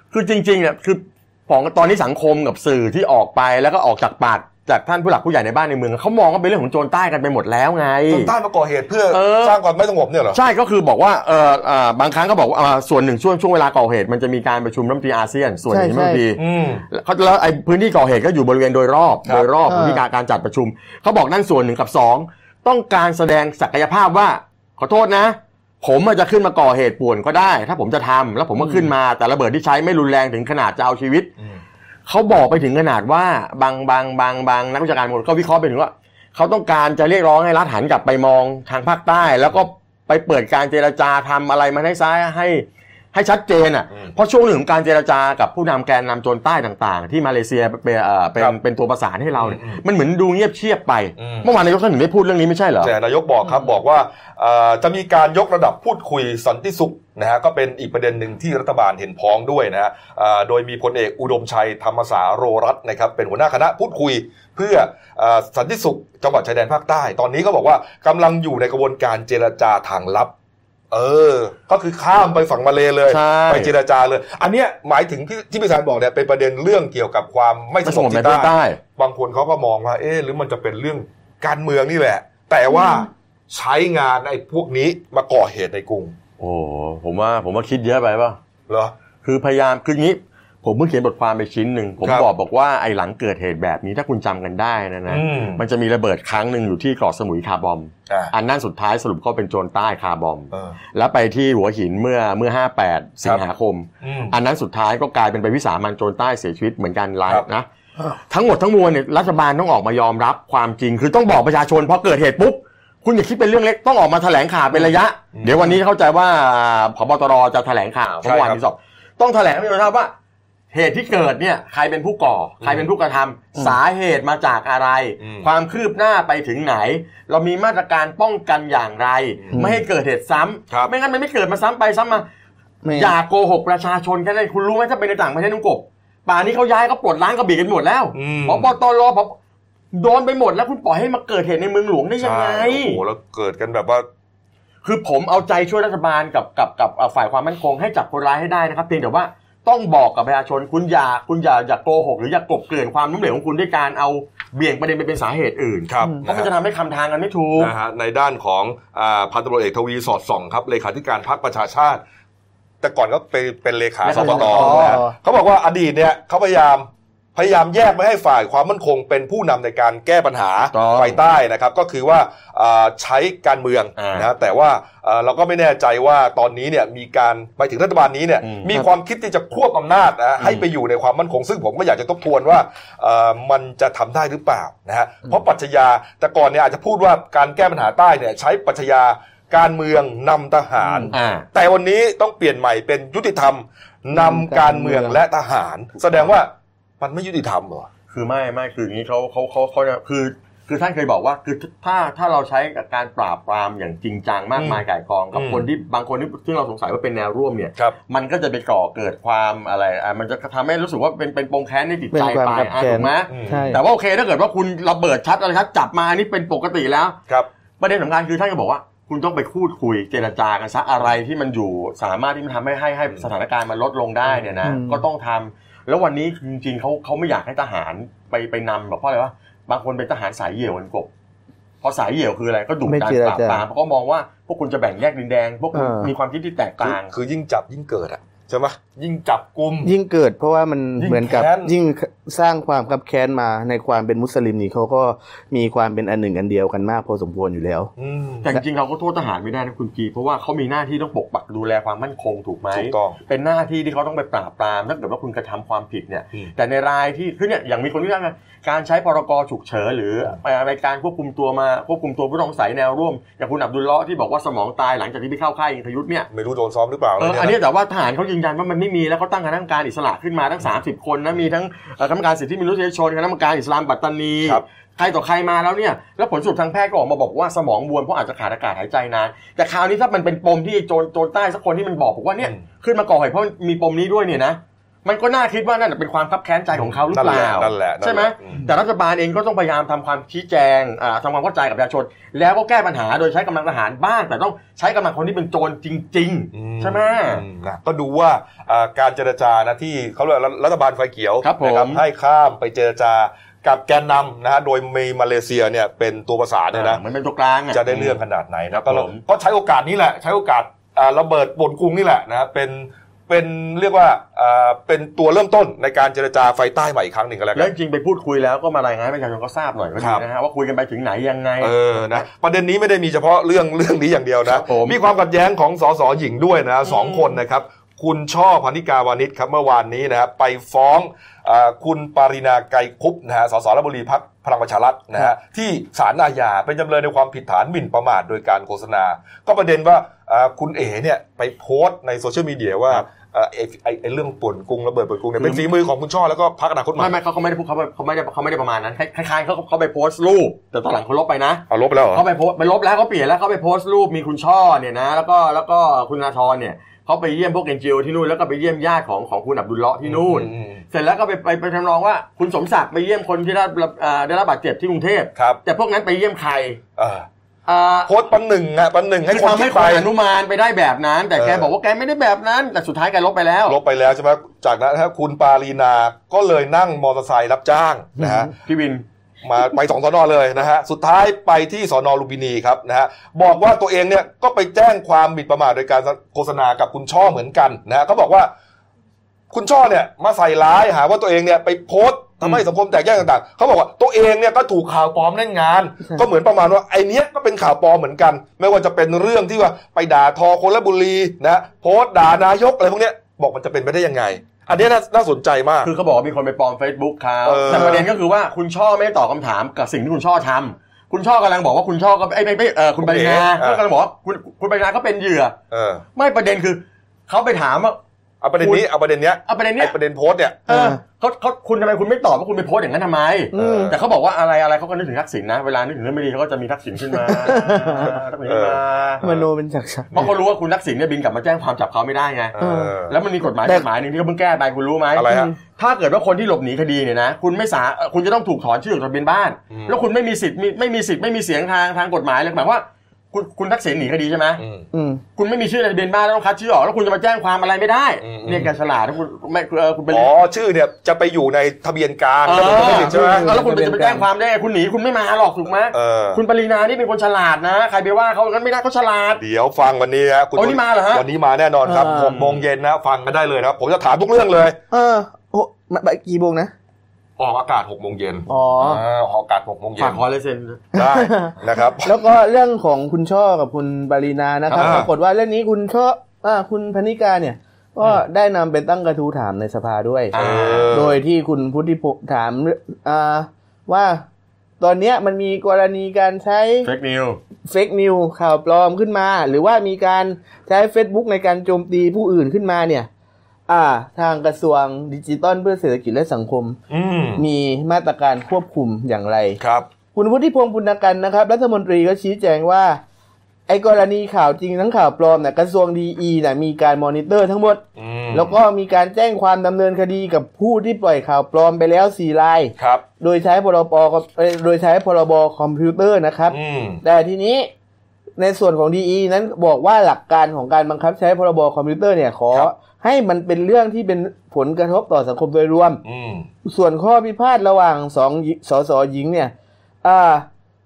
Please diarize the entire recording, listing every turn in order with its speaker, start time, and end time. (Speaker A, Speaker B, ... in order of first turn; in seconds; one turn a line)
Speaker A: 0.1-8.3
Speaker B: 8.1-10.4
Speaker A: 9.1-9.6
Speaker A: 10.3-31.3
Speaker C: 15.7-16.2
Speaker B: 16.4-16.9
Speaker C: 19.7-20.0
Speaker A: 32.1-52.9
Speaker B: 49.4-49.8
Speaker B: 51.2-51.5
Speaker B: 52.8-70.3
Speaker B: 70.9-86.1
Speaker A: 73.1-73.7
Speaker A: 77.8-78.8
Speaker A: 86.4-88.4
Speaker B: 88.7-88.9
Speaker A: 89.2-107.7
Speaker B: 92.0-92.3
Speaker B: 95.1-95.6
Speaker B: 104.0-104.4
Speaker A: 108.2-120.1
Speaker B: 115.3-115.8
Speaker B: 118.2-118.6
Speaker A: 120.7-132.3
Speaker B: 122.6-122.9
Speaker B: 125.2-125.5
Speaker C: 129.5-129.8
Speaker C: 132.8-133.2
Speaker A: 132.9-139.4
Speaker B: 138.1-138.7
Speaker A: 139.9-143.0
Speaker B: 142.2-144.1
Speaker A: 144.8-157.7
Speaker B: 155.9-156.5
Speaker B: 157.6-162.0
Speaker B: 162.8-197.9
Speaker A: 164.0-165.0
Speaker C: 164.1-165.1
Speaker A: 170.7-171.2
Speaker A: 174.0-174.3
Speaker A: 178.4-178.8
Speaker A: 180.4-180.7
Speaker C: 190.8-191.1
Speaker A: 191.1-191.5
Speaker C: 194.2-195.2
Speaker A: 196.0-196.3
Speaker A: 198.1-217.2
Speaker B: 204.6-205.7
Speaker C: 212.1-213.8
Speaker B: 213.3-213.7
Speaker A: 217.8-231.1
Speaker B: 224.3-224.5
Speaker C: 224.6-225.0
Speaker A: 231.8-237.1
Speaker C: 232.9-233.6
Speaker C: 235.7-236.1
Speaker B: 236.8-239.9
Speaker C: 239.8-247.9
Speaker B: 241.0-241.7
Speaker B: 248.0-248.5
Speaker A: 248.4-266.3
Speaker B: 252.7-253.2
Speaker B: 266.3-267.6
Speaker A: 267.2-297.4
Speaker B: 287.0-288.7
Speaker B: 296.5-307.0
Speaker A: 301.4-302.0
Speaker A: 306.7-308.2
Speaker B: 307.7-317.7
Speaker A: 308.7-309.2
Speaker A: 317.6-322.2
Speaker B: 320.0-320.2
Speaker B: 321.6-347.1
Speaker A: 324.5-325.0
Speaker A: 326.9-327.3
Speaker A: 345.4-345.7
Speaker A: 347.0-366.8
Speaker B: 351.7-352.2
Speaker B: 360.0-360.8
Speaker B: 365.4-365.6
Speaker B: 367.0-367.3
Speaker A: 367.7-368.1
Speaker B: 368.1-370.1
Speaker A: 369.3-373.8
Speaker B: 371.4-371.7
Speaker B: 373.7-378.5
Speaker A: 378.6-379.1
Speaker B: 379.4-388.5
Speaker B: 389.5-405.9
Speaker A: 405.8-415.6
Speaker B: 407.4-408.1
Speaker B: 413.0-413.8
Speaker B: 415.7-416.1
Speaker A: 416.1-418.0
Speaker B: 418.4-420.7
Speaker A: 418.6-418.9
Speaker A: 419.5-419.9
Speaker C: 420.7-421.0
Speaker A: 420.7-429.2
Speaker C: 423.5-423.9
Speaker B: 423.5-424.0
Speaker C: 427.3-428.2
Speaker B: 428.4-429.5
Speaker C: 429.2-430.2
Speaker A: 430.1-444.6
Speaker B: 432.5-433.2
Speaker C: 432.6-433.0
Speaker B: 435.1-435.5
Speaker C: 435.3-435.5
Speaker B: 439.7-440.0
Speaker B: 444.6-444.9
Speaker C: 444.9-445.2
Speaker A: 445.4-450.3
Speaker B: 448.2-448.7
Speaker B: 450.1-453.5
Speaker A: 452.4-459.4
Speaker C: 452.5-454.3
Speaker B: 455.9-456.4
Speaker B: 459.4-464.8
Speaker A: 460.6-461.3
Speaker C: 461.9-462.4
Speaker A: 462.4-462.6
Speaker C: 464.9-466.7
Speaker B: 467.4-470.2
Speaker C: 468.5-469.0
Speaker A: 470.0-470.9
Speaker B: 470.9-472.2
Speaker C: 470.9-480.4
Speaker A: 474.7-475.0
Speaker B: 474.8-475.1
Speaker A: 480.3-481.0
Speaker B: 480.4-481.2
Speaker C: 480.9-484.2
Speaker C: 484.8-486.9
Speaker A: 486.8-487.4
Speaker C: 487.7-493.1
Speaker C: 493.7-496.8
Speaker B: 496.9-497.4
Speaker C: 497.4-499.6
Speaker B: 499.6-499.9
Speaker C: 500.1-503.0
Speaker C: 503.7-517.7
Speaker B: 508.0-508.6
Speaker B: 512.8-513.0
Speaker B: 516.5-517.0
Speaker C: 518.4-526.0
Speaker B: 526.0-526.5
Speaker C: 526.6-530.5